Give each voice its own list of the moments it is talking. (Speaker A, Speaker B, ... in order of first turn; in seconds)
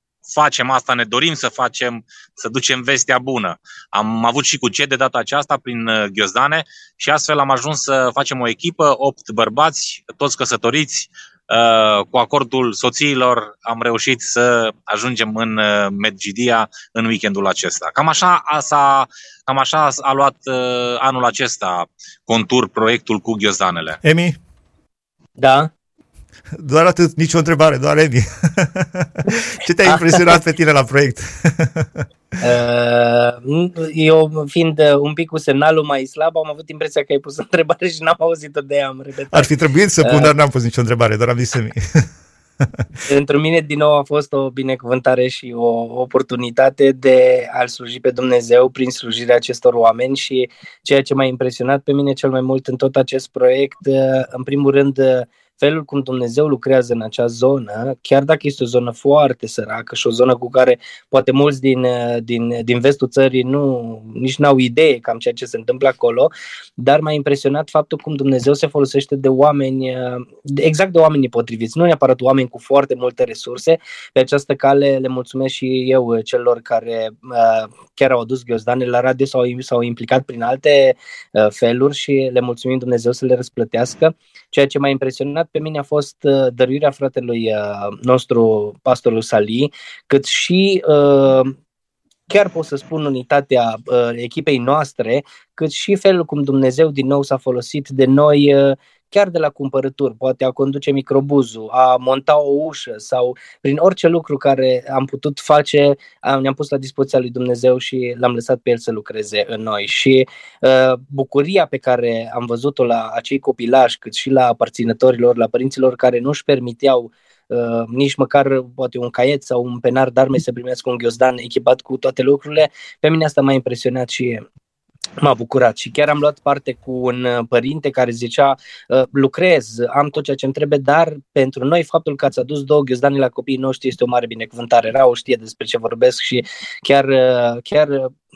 Speaker A: 0.3-24.0
Speaker B: 24.0-24.4, 26.6-32.0, 39.3-42.0
Speaker C: 25.4-25.7, 32.4-40.3, 43.1-91.6, 92.3-124.4, 125.2-138.1